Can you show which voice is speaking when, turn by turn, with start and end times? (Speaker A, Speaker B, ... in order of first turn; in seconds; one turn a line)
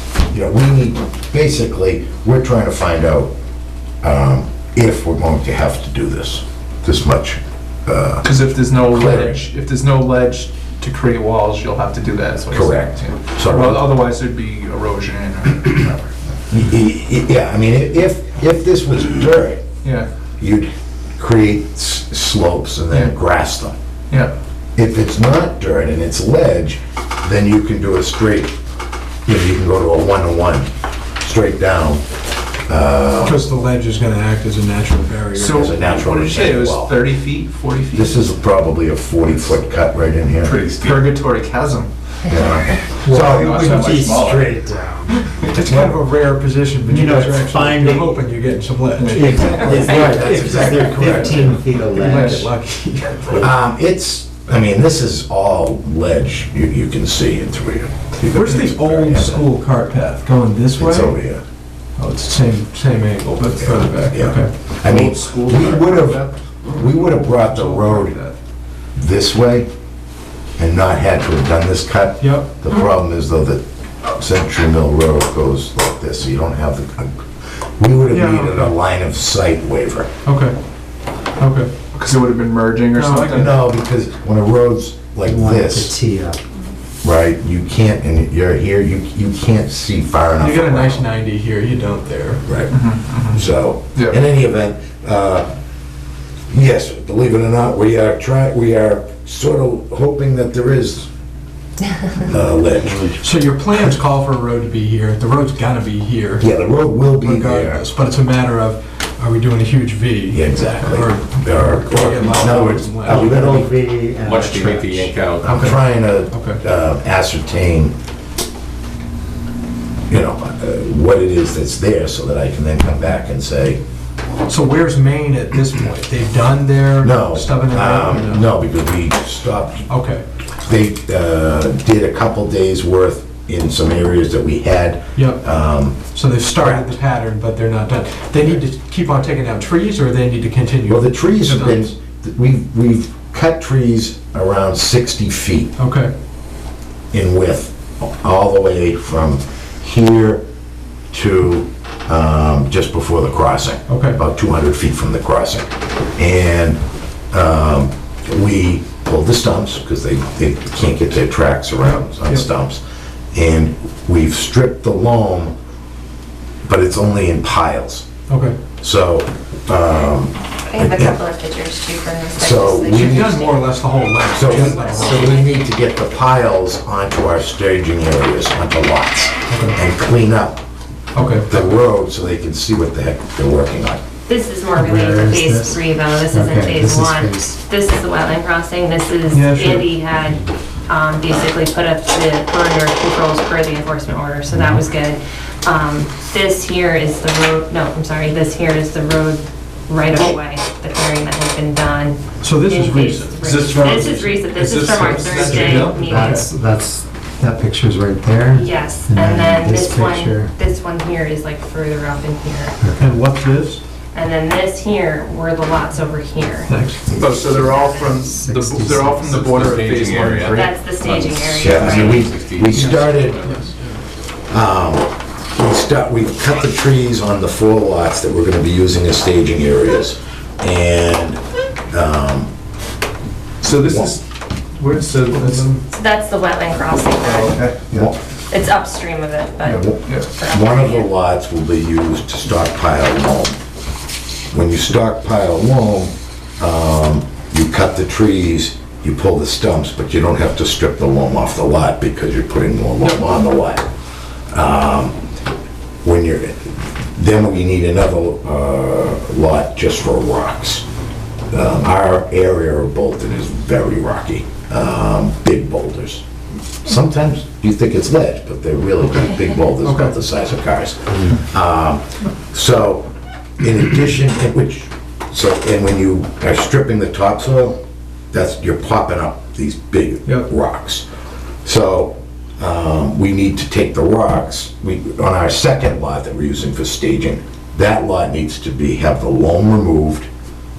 Speaker A: 0.3-3.3
Speaker A: 4.0-9.4
Speaker B: 8.2-16.1
Speaker A: 12.5-13.9
Speaker A: 16.5-19.6
Speaker B: 19.8-20.1
Speaker A: 20.4-23.8
Speaker A: 24.8-28.6
Speaker A: 29.3-30.7
Speaker A: 31.2-32.0
Speaker A: 32.7-33.4
Speaker C: 33.2-35.8
Speaker B: 35.3-38.2
Speaker A: 35.5-37.0
Speaker A: 37.9-40.7
Speaker D: 40.4-41.2
Speaker B: 40.8-41.9
Speaker A: 42.3-44.1
Speaker E: 43.0-45.2
Speaker B: 43.2-44.0
Speaker D: 43.3-44.5
Speaker C: 45.5-53.5
Speaker E: 46.8-48.2
Speaker B: 49.0-50.0
Speaker E: 49.1-52.5
Speaker A: 49.4-51.1
Speaker B: 51.9-52.5
Speaker A: 53.3-58.0
Speaker B: 58.2-58.9
Speaker C: 58.2-61.2
Speaker A: 58.5-59.4
Speaker A: 60.8-61.4
Speaker C: 62.0-64.5
Speaker A: 63.6-68.2
Speaker B: 64.8-68.3
Speaker A: 69.0-69.7
Speaker A: 70.6-80.1
Speaker C: 72.2-72.5
Speaker C: 78.1-78.7
Speaker C: 80.2-80.5
Speaker C: 81.4-81.7
Speaker B: 81.9-83.5
Speaker C: 82.9-83.5
Speaker A: 83.3-85.9
Speaker E: 85.2-86.4
Speaker A: 87.0-91.1
Speaker C: 90.4-92.5
Speaker A: 92.5-92.8
Speaker B: 92.7-93.4
Speaker A: 93.3-95.5
Speaker A: 96.5-101.1
Speaker A: 102.2-103.2
Speaker C: 103.1-106.5
Speaker A: 106.4-107.8
Speaker C: 107.1-113.5
Speaker A: 110.3-113.7
Speaker E: 113.0-115.1
Speaker D: 114.2-115.7
Speaker A: 115.4-117.9
Speaker C: 115.5-115.8
Speaker C: 116.3-116.6
Speaker A: 120.1-123.8
Speaker C: 124.5-128.4
Speaker A: 127.0-129.8
Speaker C: 129.9-130.2
Speaker A: 130.6-136.0
Speaker C: 135.2-135.4
Speaker C: 136.1-141.8
Speaker A: 136.6-136.9
Speaker A: 140.9-145.7
Speaker C: 145.8-146.1
Speaker A: 147.1-150.4
Speaker A: 151.1-156.8
Speaker C: 153.9-154.2
Speaker A: 157.3-162.8
Speaker A: 163.3-165.5
Speaker A: 166.7-168.1
Speaker C: 168.3-168.6
Speaker A: 168.8-171.2
Speaker F: 170.7-175.7
Speaker A: 172.4-173.4
Speaker C: 172.9-175.4
Speaker A: 174.3-180.6
Speaker C: 179.5-179.8
Speaker C: 181.1-181.8
Speaker A: 181.5-184.0
Speaker F: 184.3-206.5
Speaker E: 184.7-187.5
Speaker C: 189.3-189.9
Speaker C: 202.4-204.3
Speaker B: 203.4-206.1
Speaker C: 205.2-206.5
Speaker E: 205.3-210.5
Speaker F: 208.5-212.8
Speaker E: 212.8-213.2
Speaker C: 213.0-213.8
Speaker F: 214.1-218.4
Speaker C: 216.7-217.0
Speaker B: 217.2-220.8
Speaker E: 218.2-219.2
Speaker D: 219.2-223.7
Speaker F: 220.5-222.3
Speaker A: 221.6-223.5
Speaker C: 223.5-223.8
Speaker A: 224.5-231.4
Speaker A: 231.9-232.5
Speaker B: 233.6-234.2
Speaker A: 233.8-234.1
Speaker B: 234.8-235.7
Speaker C: 235.3-235.8
Speaker F: 235.9-237.6
Speaker B: 237.2-238.1
Speaker F: 238.5-241.1
Speaker B: 239.6-240.3
Speaker A: 239.7-243.6
Speaker A: 244.5-253.9
Speaker A: 254.5-255.2
Speaker A: 256.0-260.9
Speaker A: 261.5-266.2
Speaker A: 266.8-273.1
Speaker C: 269.8-270.1
Speaker A: 273.6-277.8
Speaker A: 278.3-281.1
Speaker A: 281.6-290.3